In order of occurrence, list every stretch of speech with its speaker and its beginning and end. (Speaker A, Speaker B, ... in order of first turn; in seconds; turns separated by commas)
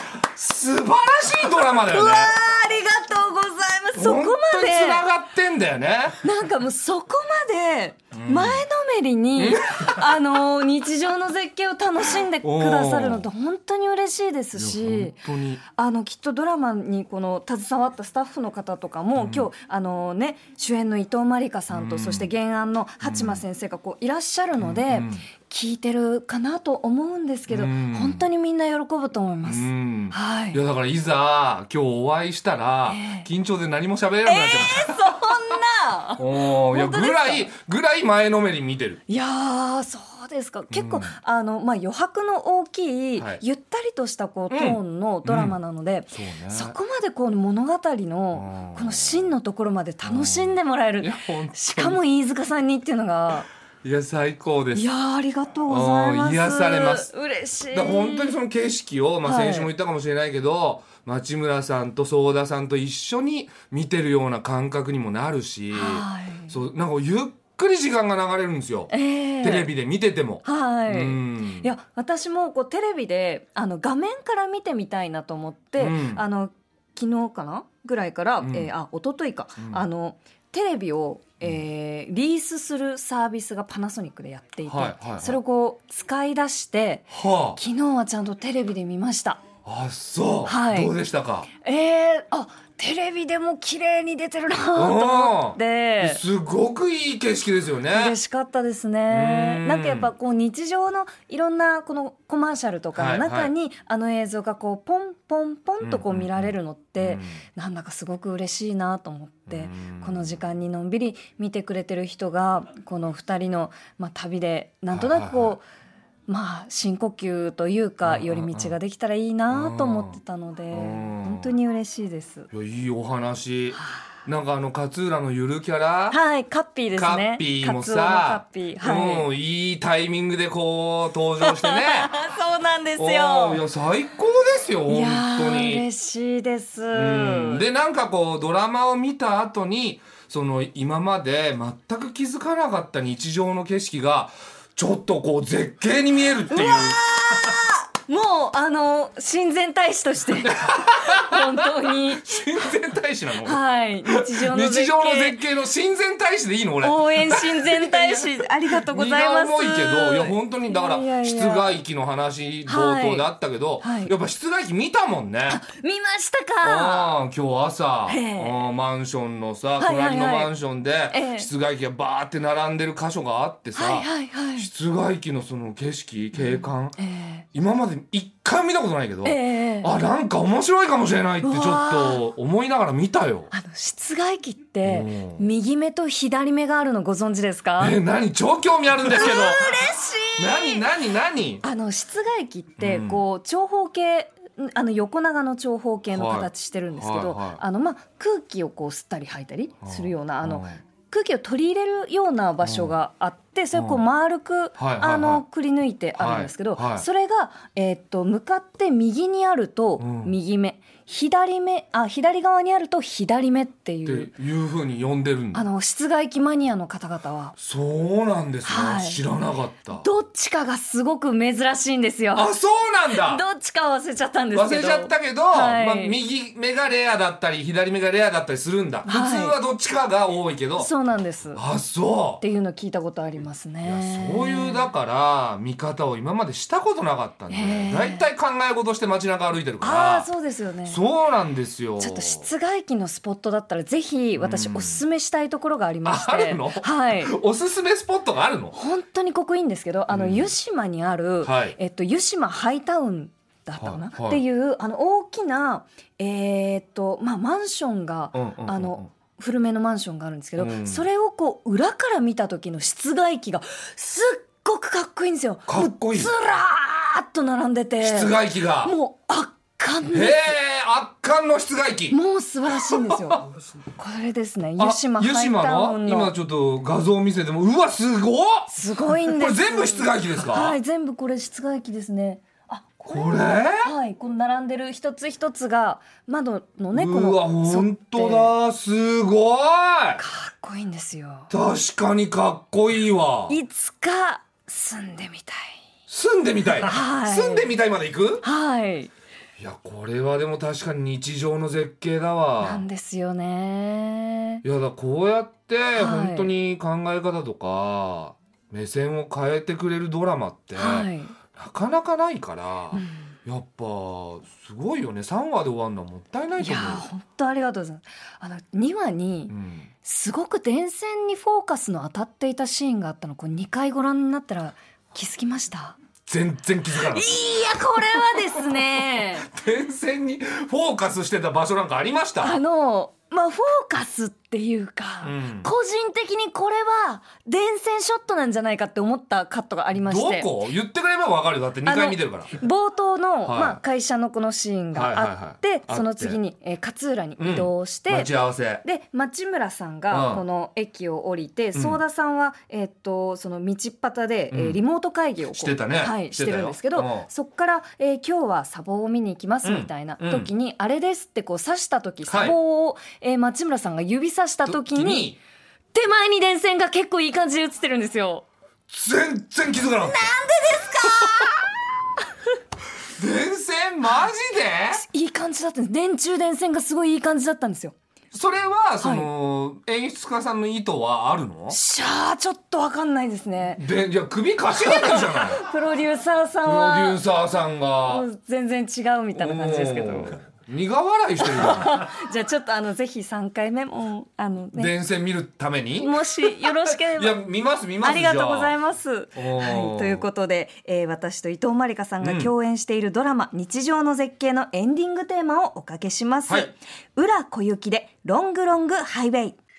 Speaker A: 0.2-2.4, Speaker B: 1.7-5.0, Speaker A: 4.0-6.2, Speaker B: 6.2-30.6, Speaker A: 8.1-8.7, Speaker A: 9.4-10.2, Speaker A: 12.4-13.3, Speaker A: 14.6-15.6, Speaker A: 19.1-19.5, Speaker A: 21.7-22.3, Speaker A: 23.0-23.4, Speaker A: 24.6-25.2, Speaker A: 27.5-28.3, Speaker A: 29.4-35.3, Speaker B: 32.9-33.3, Speaker B: 34.2-37.5, Speaker A: 36.2-39.0, Speaker B: 39.1-53.5, Speaker A: 40.7-41.1, Speaker A: 43.2-43.4, Speaker A: 44.5-45.6, Speaker A: 46.1-46.8, Speaker A: 48.3-49.3, Speaker A: 50.0-52.0, Speaker A: 53.8-54.9, Speaker B: 54.7-58.4, Speaker A: 55.7-57.1, Speaker A: 57.7-71.7, Speaker B: 59.2-59.7, Speaker B: 65.7-66.6, Speaker B: 68.9-69.7, Speaker B: 70.4-89.4, Speaker A: 75.8-76.2, Speaker A: 78.4-78.7, Speaker A: 79.6-79.8, Speaker A: 84.7-85.4, Speaker A: 87.1-87.6, Speaker A: 89.7-91.5, Speaker B: 90.5-90.9, Speaker B: 91.6-96.2, Speaker A: 94.8-98.2, Speaker B: 97.9-115.7, Speaker A: 99.1-100.1, Speaker A: 103.0-103.5, Speaker A: 105.8-107.4, Speaker A: 109.5-110.4, Speaker A: 114.9-115.6, Speaker B: 116.3-122.5, Speaker A: 118.0-118.7, Speaker A: 119.5-120.2, Speaker A: 120.7-121.5, Speaker A: 122.5-126.2, Speaker B: 126.1-129.3, Speaker A: 126.9-132.1, Speaker B: 131.4-133.6, Speaker A: 133.0-135.8, Speaker B: 134.9-137.6, Speaker A: 136.9-147.6, Speaker B: 146.5-152.6, Speaker A: 150.4-165.6, Speaker B: 153.4-155.4, Speaker B: 156.8-161.8, Speaker B: 162.7-163.3, Speaker B: 163.8-164.1, Speaker B: 165.5-167.1, Speaker A: 166.6-177.0, Speaker B: 168.1-168.7, Speaker B: 169.8-170.5, Speaker B: 171.1-171.5, Speaker B: 173.8-174.7, Speaker B: 176.3-177.5, Speaker A: 177.5-183.5, Speaker B: 179.2-179.9, Speaker B: 181.4-182.3, Speaker B: 183.5-188.0, Speaker A: 184.8-185.5, Speaker A: 187.8-191.6, Speaker B: 189.0-190.9, Speaker B: 191.6-214.3, Speaker A: 192.8-193.2, Speaker A: 196.1-197.6, Speaker A: 199.8-200.8, Speaker A: 202.6-202.9, Speaker A: 203.8-204.0, Speaker A: 204.8-205.4, Speaker A: 206.2-207.1, Speaker A: 210.0-210.3, Speaker A: 214.1-215.6, Speaker B: 215.5-217.6, Speaker A: 217.6-220.1, Speaker B: 218.7-219.2, Speaker B: 219.9-222.5, Speaker A: 222.3-223.4, Speaker B: 223.1-226.2, Speaker A: 224.5-230.9, Speaker B: 229.1-229.6, Speaker B: 230.8-231.6, Speaker A: 231.5-232.4, Speaker B: 232.4-234.9, Speaker A: 233.8-240.3, Speaker B: 237.5-238.3, Speaker B: 239.8-241.0, Speaker A: 240.9-242.5, Speaker B: 242.0-247.4, Speaker A: 244.4-245.0, Speaker A: 246.1-248.8, Speaker B: 248.7-270.6, Speaker A: 250.1-250.5, Speaker A: 251.4-251.8, Speaker A: 253.8-254.4, Speaker A: 258.3-259.1, Speaker A: 260.6-261.1, Speaker A: 265.7-266.3, Speaker A: 268.0-268.9, Speaker A: 270.1-272.2, Speaker B: 272.1-276.3, Speaker A: 272.7-273.4, Speaker A: 274.8-280.8, Speaker B: 278.7-288.5, Speaker A: 283.1-283.9, Speaker A: 286.9-290.2, Speaker B: 290.2-291.5, Speaker A: 291.5-293.6, Speaker B: 293.5-295.8, Speaker A: 296.1-298.4, Speaker B: 296.8-297.7, Speaker B: 298.4-299.1, Speaker A: 299.6-302.8, Speaker B: 302.6-304.6, Speaker A: 304.6-317.1, Speaker B: 305.9-306.5, Speaker B: 310.8-311.4, Speaker B: 312.9-313.3, Speaker B: 316.6-326.0, Speaker A: 319.5-319.9, Speaker A: 326.3-332.6, Speaker B: 326.9-329.5, Speaker B: 332.4-340.5, Speaker A: 335.2-335.7, Speaker A: 340.0-342.6, Speaker B: 341.9-365.3, Speaker A: 343.4-343.8, Speaker A: 344.9-346.4, Speaker A: 347.4-348.8, Speaker A: 350.1-350.4, Speaker A: 351.8-352.0, Speaker A: 354.5-354.8, Speaker A: 355.5-357.3, Speaker A: 359.6-360.5, Speaker A: 362.3-362.6, Speaker A: 364.7-365.4, Speaker B: 365.9-368.5, Speaker A: 368.9-370.3, Speaker B: 369.9-371.8, Speaker A: 371.2-371.4, Speaker A: 373.2-375.1, Speaker B: 374.9-378.0, Speaker A: 378.3-381.8, Speaker B: 379.0-379.3, Speaker B: 381.7-383.8, Speaker A: 383.8-385.6, Speaker B: 384.8-387.2, Speaker A: 386.6-388.2, Speaker B: 388.1-390.4, Speaker A: 389.4-392.0, Speaker B: 391.4-394.9, Speaker A: 394.7-398.8, Speaker B: 396.0-397.4, Speaker B: 398.0-409.6, Speaker A: 399.4-400.3, Speaker A: 402.2-402.5